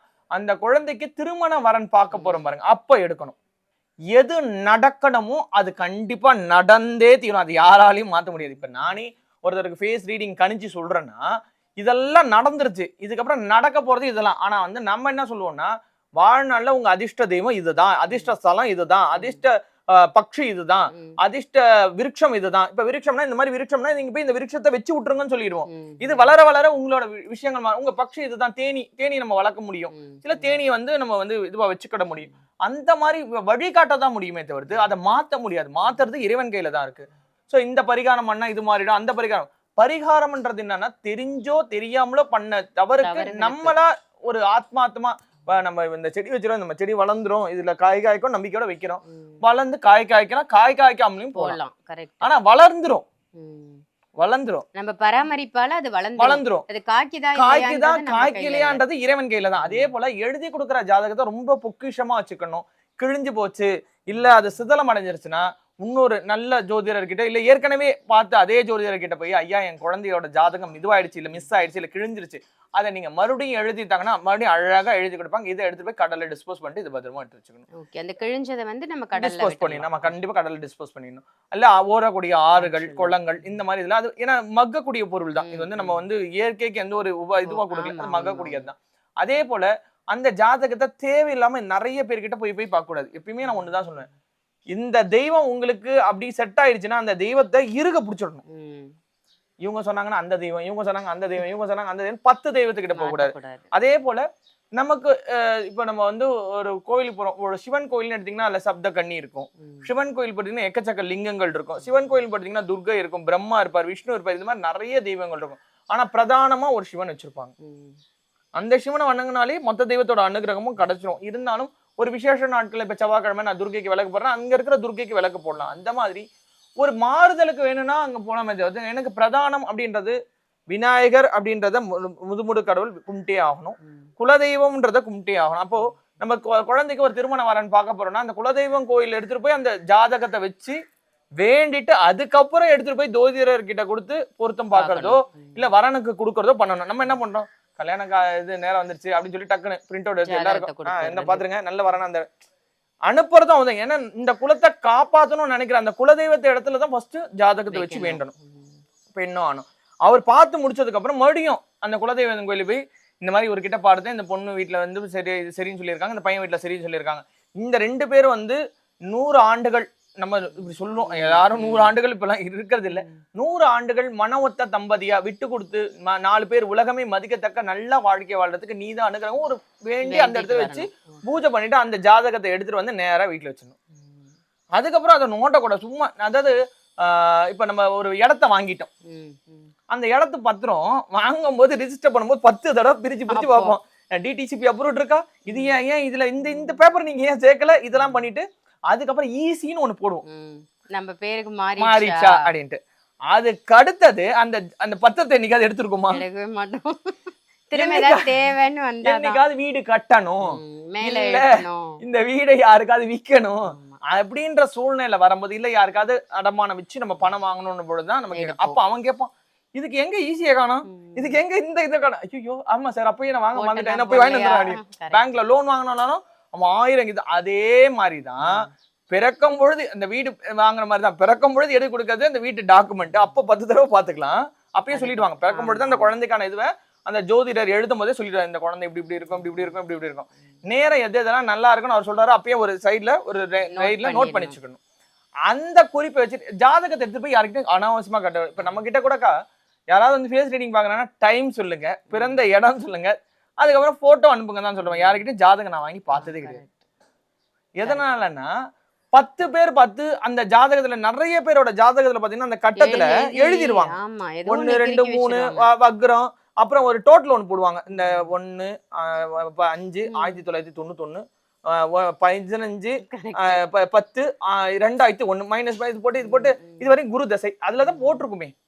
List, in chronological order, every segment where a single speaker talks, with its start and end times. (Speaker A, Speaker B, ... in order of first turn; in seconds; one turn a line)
Speaker A: 0.3-3.4
Speaker B: 2.1-2.5
Speaker A: 4.1-11.2
Speaker A: 11.8-51.6
Speaker B: 19.1-19.4
Speaker B: 25.7-26.3
Speaker B: 29.9-30.6
Speaker B: 43.0-43.8
Speaker B: 49.1-49.4
Speaker B: 51.3-52.3
Speaker A: 52.2-53.0
Speaker B: 53.4-53.8
Speaker A: 54.2-54.6
Speaker B: 54.8-58.8
Speaker A: 56.2-56.6
Speaker A: 57.4-77.6
Speaker B: 59.6-59.9
Speaker B: 77.8-80.1
Speaker A: 79.2-94.1
Speaker B: 82.6-83.2
Speaker B: 85.4-86.0
Speaker B: 87.4-88.7
Speaker B: 93.4-93.7
Speaker A: 94.7-98.4
Speaker B: 98.5-98.9
Speaker A: 99.6-104.2
Speaker B: 102.9-103.7
Speaker A: 104.8-117.5
Speaker B: 109.6-109.9
Speaker B: 111.8-112.1
Speaker B: 117.6-117.9
Speaker A: 118.6-126.2
Speaker A: 126.8-130.1
Speaker A: 130.7-140.8
Speaker A: 141.4-152.2
Speaker B: 144.7-145.7
Speaker B: 150.2-151.4
Speaker A: 153.1-158.3
Speaker B: 157.7-158.7
Speaker A: 159.1-183.8
Speaker B: 171.0-171.9
Speaker B: 172.9-173.2
Speaker B: 180.0-181.2
Speaker B: 183.9-184.3
Speaker A: 184.8-188.9
Speaker B: 189.1-189.7
Speaker A: 189.9-200.2
Speaker B: 193.3-193.8
Speaker B: 195.5-195.8
Speaker B: 196.4-196.8
Speaker B: 198.0-198.2
Speaker B: 200.3-202.5
Speaker A: 201.8-202.8
Speaker A: 203.3-206.2
Speaker B: 206.1-209.4
Speaker A: 207.7-208.3
Speaker A: 209.0-210.5
Speaker B: 210.5-212.0
Speaker A: 211.0-228.5
Speaker B: 213.7-214.0
Speaker B: 218.3-218.8
Speaker B: 220.9-221.4
Speaker B: 223.5-225.3
Speaker B: 228.4-228.7
Speaker A: 229.1-244.8
Speaker B: 234.9-236.1
Speaker B: 239.3-239.7
Speaker B: 243.7-244.6
Speaker A: 245.5-249.3
Speaker A: 249.9-256.6
Speaker B: 252.1-252.4
Speaker B: 254.8-255.2
Speaker B: 256.1-256.7
Speaker A: 257.8-258.5
Speaker B: 257.8-258.1
Speaker A: 259.1-278.5
Speaker B: 262.8-265.7
Speaker B: 267.9-268.3
Speaker B: 270.1-270.4
Speaker B: 273.0-273.6
Speaker B: 276.2-276.9
Speaker B: 277.8-278.2